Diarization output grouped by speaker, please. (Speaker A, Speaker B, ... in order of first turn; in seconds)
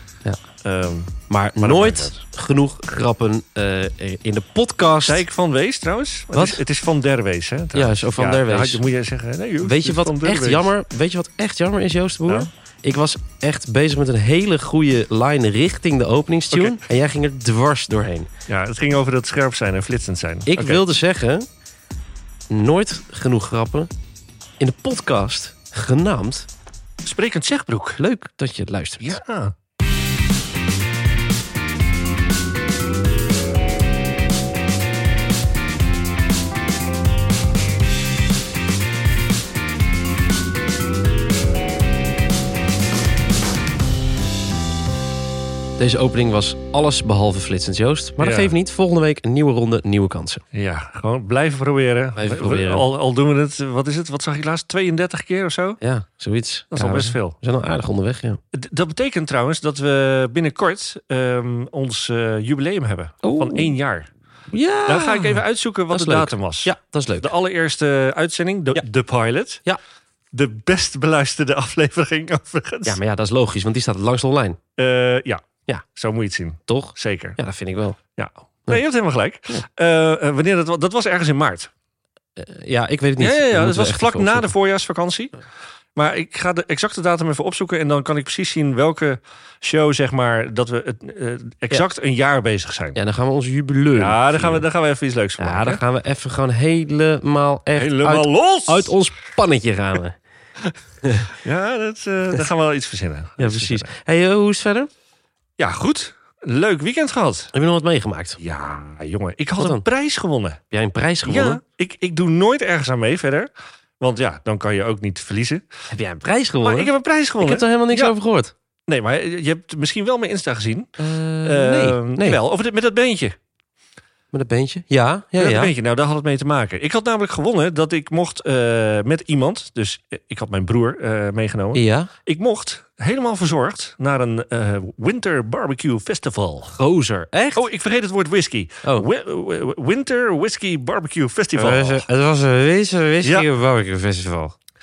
Speaker A: 0.6-2.2, 5.0-10.7, 16.5-16.8, 18.5-20.8, 27.1-28.0, 29.0-29.5, 48.2-48.5, 50.5-55.8, 56.7-57.4, 58.5-64.1, 64.9-69.6, 70.3-73.0, 74.8-77.4, 78.2-81.7, 83.2-85.4, 86.0-93.0, 94.0-95.8, 97.8-98.9, 101.3-103.9, 105.6-107.5, 108.4-110.6, 111.2-115.7, 116.6-118.1, 118.9-120.9, 121.4-123.4, 125.4-136.8, 137.6-142.1
Speaker B: 1.3-5.2, 6.3-6.6, 7.7-8.8, 9.6-18.3, 20.5-21.5, 22.5-23.9, 24.6-26.5, 28.0-29.2, 45.8-50.4, 52.2-52.9, 55.8-58.4, 63.2-63.7, 64.5-67.3, 72.9-74.6, 76.7-78.0, 82.4-84.5, 93.0-94.6, 95.4-100.2, 101.0-101.3, 103.4-104.9, 107.5-108.4, 109.6-109.8, 110.7-111.6, 115.9-118.5, 121.0-122.4, 124.3-125.7, 131.7-132.1, 136.7-137.7, 141.6-144.6